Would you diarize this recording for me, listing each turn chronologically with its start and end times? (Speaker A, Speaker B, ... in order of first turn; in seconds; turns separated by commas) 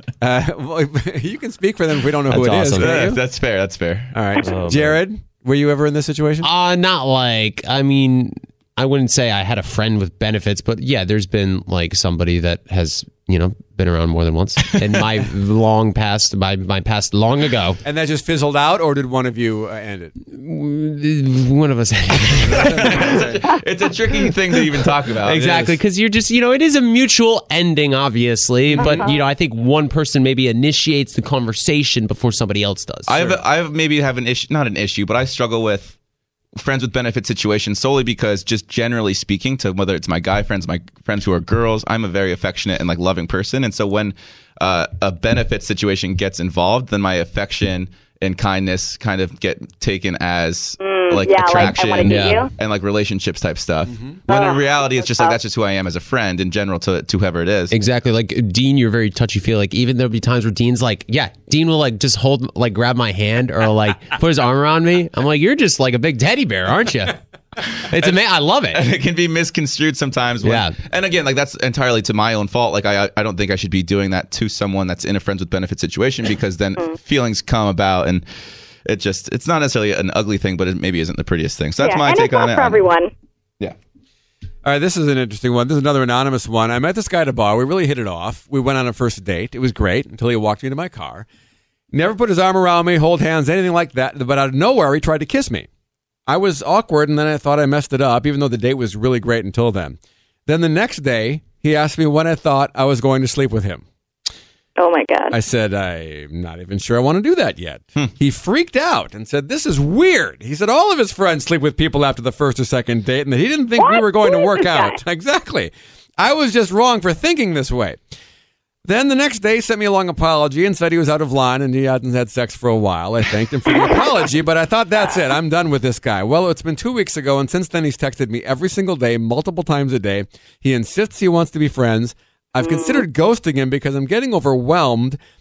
Speaker A: 0.2-3.2, Speaker B: 2.3-3.1, Speaker C: 2.8-4.2, Speaker A: 4.1-6.5, Speaker B: 4.4-5.0, Speaker B: 6.4-17.8, Speaker A: 17.8-20.1, Speaker B: 20.3-23.2, Speaker A: 22.4-23.4, Speaker C: 22.6-25.7, Speaker B: 25.2-33.4, Speaker A: 25.3-25.8, Speaker D: 28.8-29.2, Speaker C: 33.1-36.0, Speaker C: 36.6-57.8, Speaker D: 50.8-52.5, Speaker B: 51.6-52.5, Speaker D: 54.3-55.4, Speaker B: 57.7-67.2, Speaker B: 67.8-68.9, Speaker C: 67.9-78.2, Speaker B: 70.4-70.8, Speaker C: 78.8-82.9, Speaker D: 81.8-83.1, Speaker A: 84.7-91.3, Speaker A: 91.9-95.7, Speaker A: 96.3-103.8, Speaker D: 104.8-105.4, Speaker A: 105.3-118.0, Speaker D: 113.8-115.0, Speaker A: 118.8-135.2, Speaker D: 132.6-133.0